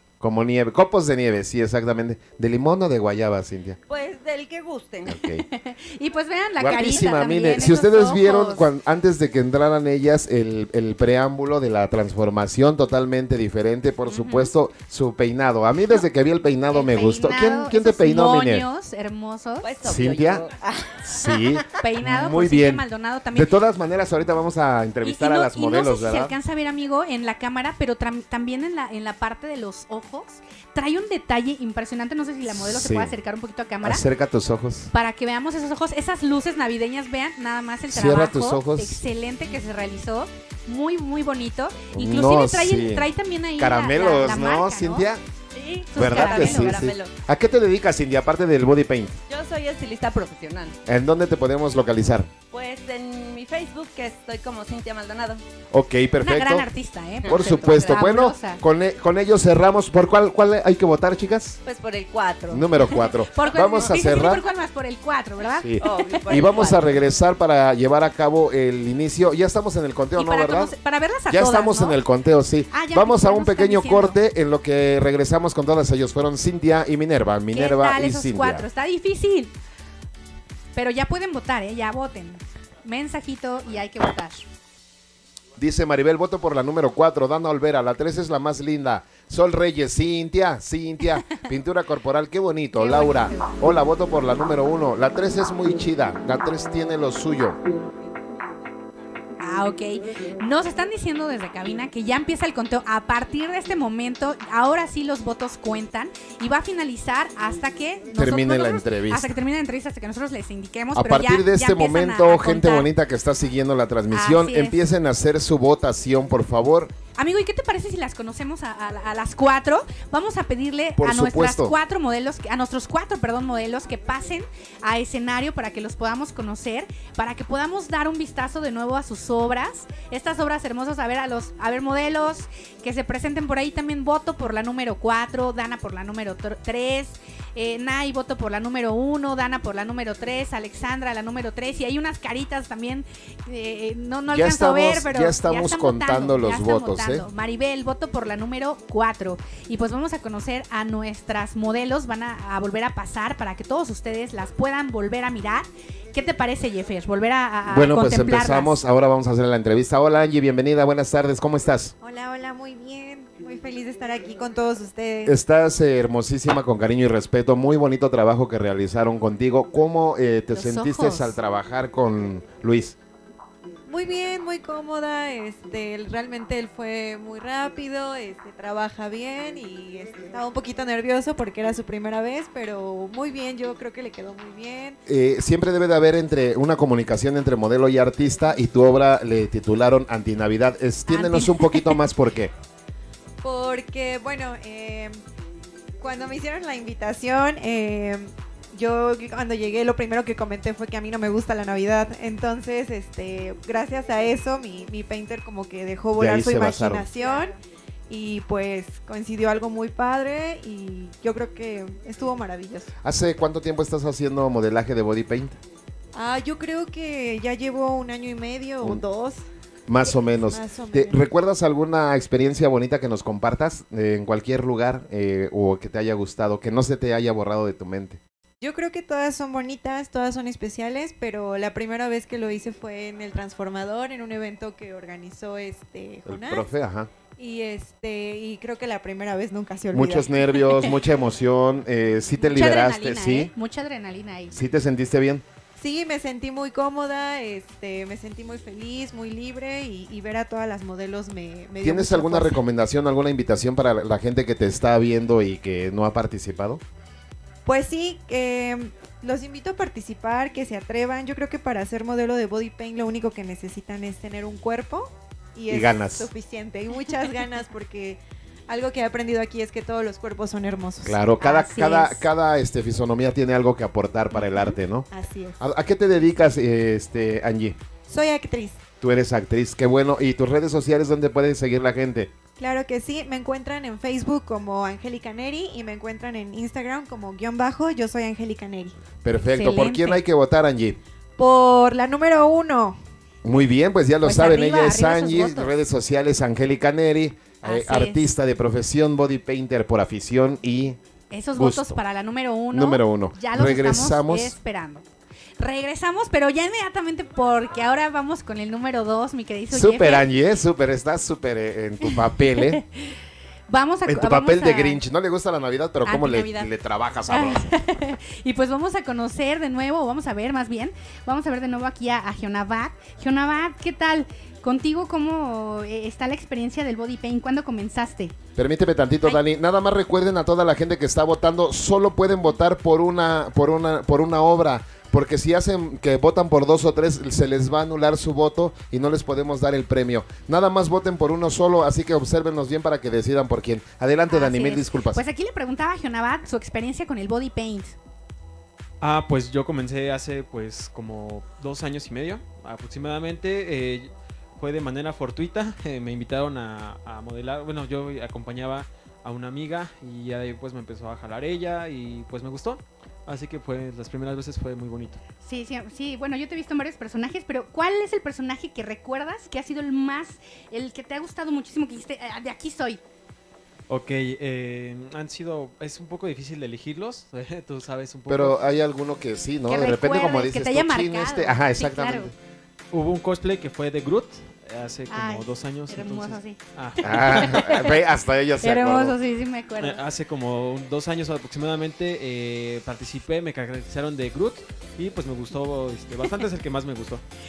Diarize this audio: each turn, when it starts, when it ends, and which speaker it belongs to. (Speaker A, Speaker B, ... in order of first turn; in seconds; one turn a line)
Speaker A: 0.2-3.8
Speaker B: 3.9-5.2
Speaker A: 5.1-5.5
Speaker C: 5.5-8.7
Speaker A: 6.6-18.7
Speaker C: 14.1-14.5
Speaker C: 16.7-19.7
Speaker B: 19.6-21.7
Speaker A: 19.8-20.4
Speaker A: 21.0-26.3
Speaker C: 21.8-23.6
Speaker C: 25.0-34.0
Speaker A: 32.5-33.1
Speaker A: 33.8-34.9
Speaker C: 34.9-45.1
Speaker A: 37.9-39.0
Speaker A: 41.9-45.2
Speaker B: 45.5-47.1
Speaker C: 45.9-46.8
Speaker A: 46.0-49.2
Speaker B: 49.3-50.8
Speaker A: 50.9-52.3
Speaker B: 52.5-55.4
Speaker A: 55.7-56.7
Speaker C: 56.2-58.6
Speaker B: 57.2-58.0
Speaker A: 57.2-61.6
Speaker B: 61.6-64.4
Speaker A: 62.5-64.4
Speaker C: 62.9-66.4
Speaker A: 65.6-70.7
Speaker B: 65.8-67.0
Speaker C: 70.1-72.0
Speaker A: 71.3-78.6
Speaker C: 72.7-74.2
Speaker C: 77.5-79.5
Speaker C: 80.7-84.5
Speaker A: 85.6-97.6
Speaker C: 92.7-93.5
Speaker C: 99.4-112.9
Speaker A: 108.1-109.3
Speaker A: 111.0-116.9
Speaker C: 114.1-114.8
Speaker C: 117.2-158.8
Speaker A: 121.0-121.7
Speaker A: 144.3-147.3
Speaker A: 157.7-161.9
Speaker D: 162.0-165.4
Speaker A: 165.3-173.0
Speaker C: 170.5-171.4
Speaker D: 173.9-185.0
Speaker A: 185.1-192.5
Speaker C: 191.1-191.9
Speaker D: 193.4-195.2
Speaker D: 196.0-207.6
Speaker A: 206.2-207.1
Speaker D: 208.1-212.9
Speaker A: 213.0-215.6
Speaker D: 216.1-219.4
Speaker A: 219.9-228.2
Speaker D: 220.1-221.2
Speaker D: 228.6-236.7
Speaker A: 236.3-237.1
Speaker D: 237.4-240.3
Speaker A: 239.9-243.5
Speaker C: 242.5-244.6
Speaker A: 244.5-245.4
Speaker D: 245.8-252.6
Speaker A: 251.8-256.8
Speaker D: 257.7-271.2
Speaker A: 265.7-266.3
Speaker A: 271.0-275.1
Speaker C: 271.4-272.2
Speaker D: 275.1-275.6
Speaker A: 275.6-277.8
Speaker D: 278.1-278.8
Speaker A: 279.0-282.3
Speaker D: 282.6-289.0
Speaker A: 289.2-291.0
Speaker C: 289.5-290.2
Speaker D: 291.4-293.0
Speaker A: 293.4-301.0
Speaker C: 294.2-295.7
Speaker C: 297.6-298.3
Speaker C: 301.3-305.0
Speaker A: 301.6-302.0
Speaker A: 302.7-304.6
Speaker C: 305.6-310.3
Speaker A: 309.7-312.8
Speaker C: 312.1-313.1
Speaker C: 313.7-315.0
Speaker A: 314.1-317.7
Speaker C: 316.0-316.7
Speaker C: 317.3-328.3
Speaker A: 328.6-345.2
Speaker C: 344.3-347.9
Speaker E: 349.0-365.2
Speaker C: 365.4-373.0
Speaker E: 373.9-378.6
Speaker A: 378.3-382.3
Speaker C: 379.7-382.3
Speaker E: 382.9-387.6
Speaker C: 385.1-388.0
Speaker A: 387.0-389.1
Speaker C: 388.6-390.0
Speaker E: 389.8-397.2